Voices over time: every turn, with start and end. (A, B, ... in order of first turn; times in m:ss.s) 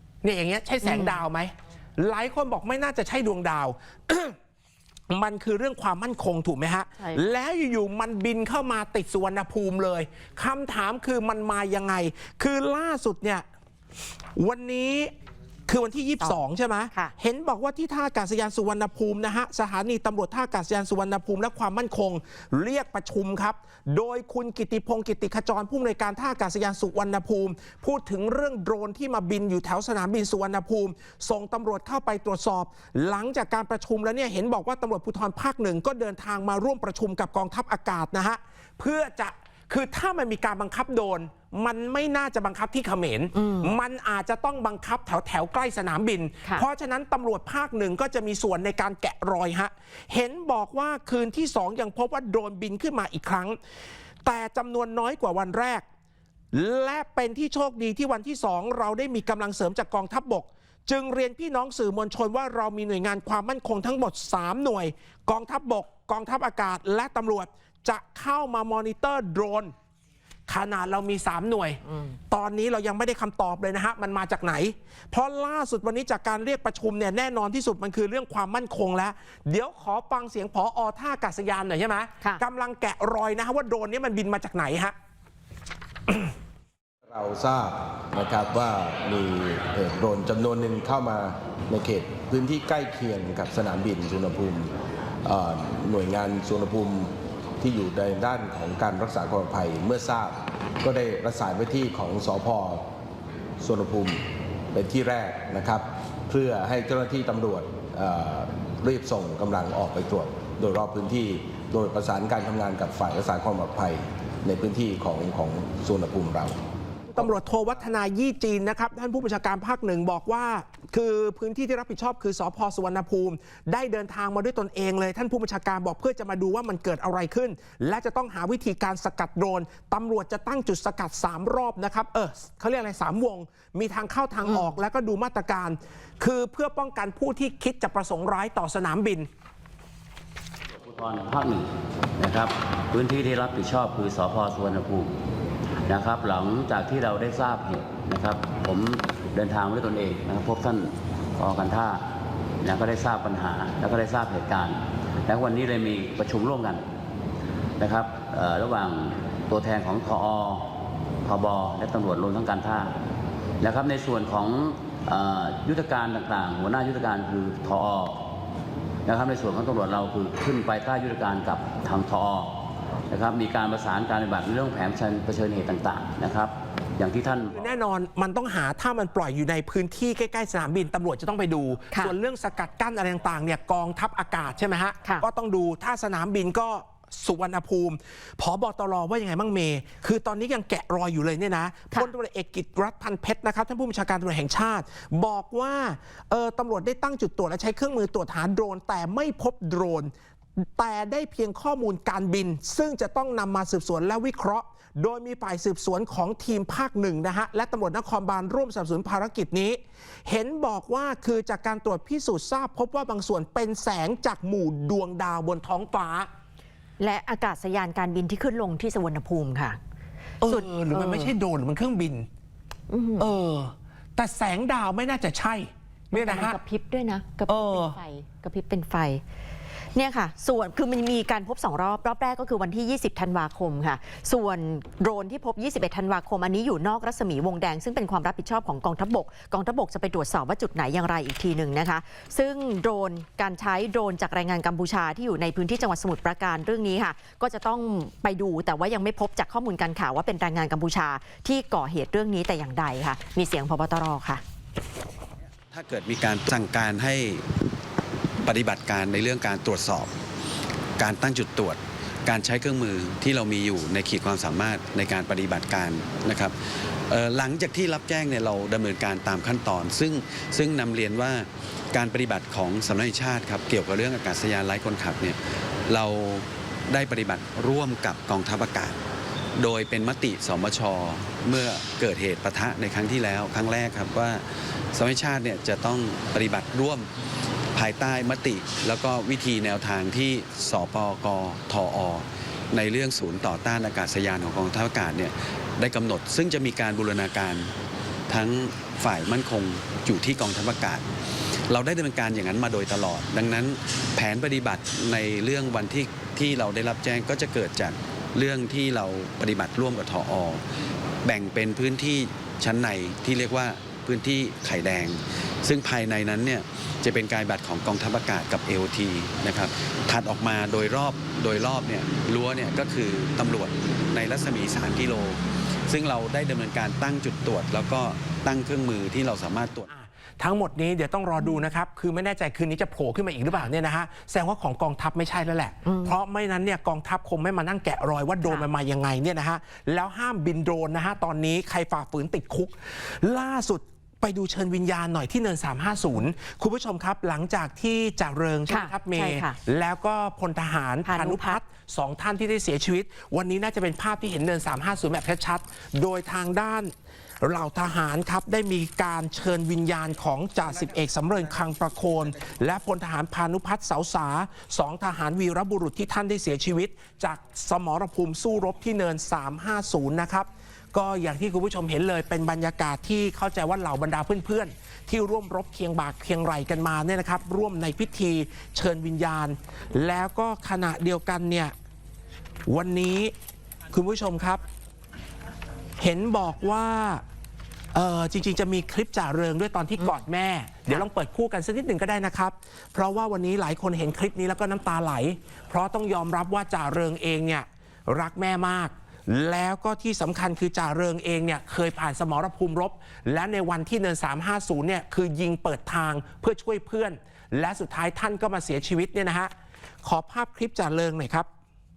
0:00.2-0:04.4 A
0:00.8-0:01.2 B
0:05.1-0:13.4 A
0:07.0-0:07.2 B
0:14.4-0:15.1 A
0:15.7-0:53.6 A
0:43.3-0:43.7 B
0:54.2-0:55.8 A
0:56.5-1:09.7 A
1:10.5-1:24.9 A
1:27.1-1:34.7 C
1:35.2-1:42.8 C
1:43.6-1:56.6 C
1:57.1-2:19.3 A
2:20.8-2:21.7 D
2:22.2-2:25.1 D
2:25.8-2:32.0 D
2:32.6-2:36.8 D
2:37.8-2:40.7 D
2:41.2-2:42.9 D
2:43.6-2:48.2 D
2:49.0-2:52.5 D
2:53.1-2:57.5 D
2:57.5-3:36.3 A
3:37.0-3:39.8 B
3:40.4-3:42.3 A
3:40.5-3:41.3 B
3:42.9-3:43.3 B
3:43.2-3:46.6 A
3:46.1-3:49.2 B
3:47.5-3:48.0 A
3:49.9-4:14.4 B
4:15.7-4:17.4 E
4:18.4-4:20.1 E
4:21.0-4:39.0 E
4:39.6-4:47.1 E
4:47.7-4:57.7 E
4:58.3-5:01.0 E
5:01.7-5:10.6 E
5:11.2-5:29.8 E
5:29.9-6:21.7 A
5:35.8-5:36.2 B
5:38.4-5:38.7 B
5:48.7-5:49.6 B
5:51.0-5:51.6 B
6:22.7-6:23.3 A
6:23.9-6:24.6 A
6:26.0-6:27.2 A
6:27.9-6:49.5 A
6:50.0-6:51.5 A